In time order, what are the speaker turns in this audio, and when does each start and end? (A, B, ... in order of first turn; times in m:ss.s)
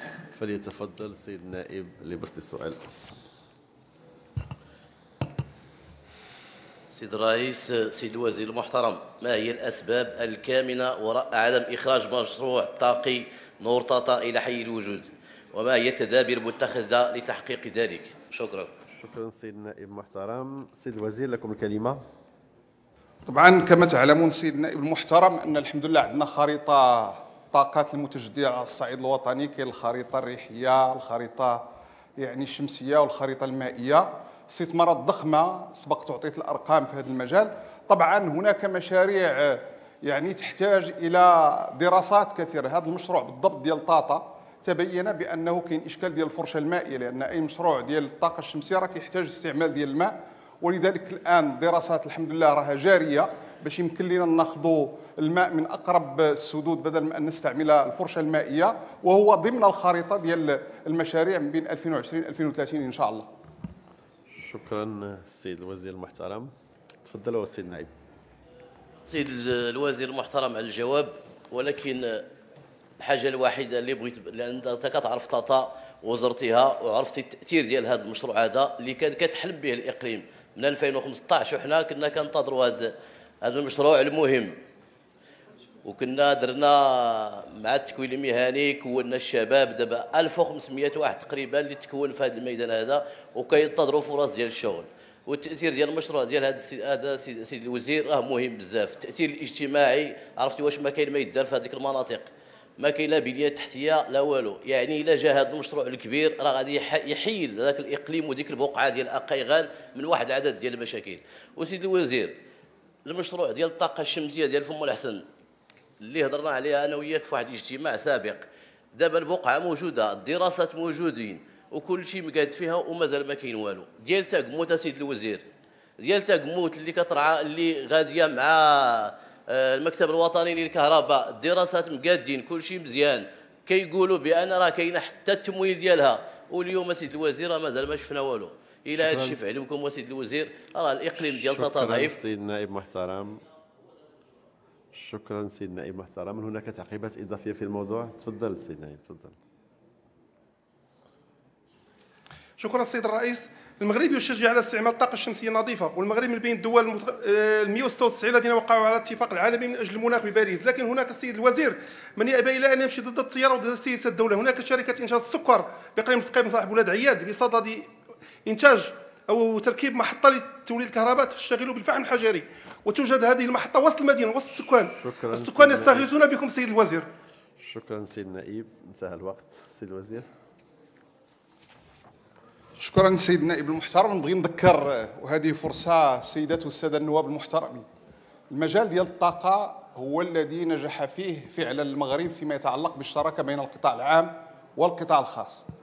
0:00.3-0:02.8 A
0:06.9-0:18.7 B
0:18.9-0:22.0 A
0:23.3-0:31.6 C
0:32.2-1:03.3 C
1:04.3-1:06.5 A
1:07.0-1:07.9 A
1:09.1-1:12.2 B
1:13.0-1:24.5 B
1:25.8-1:42.3 B
1:42.8-1:52.3 B
1:53.0-1:55.2 B
1:56.0-2:05.4 B
2:06.0-2:22.2 B
2:19.0-2:19.4 A
2:21.2-2:23.4 A
2:24.9-2:29.4 A
2:32.6-2:47.9 D
2:48.5-2:57.1 D
2:55.0-2:56.1 A
2:57.6-3:00.3 A
3:02.8-3:07.8 C
3:08.5-3:15.7 C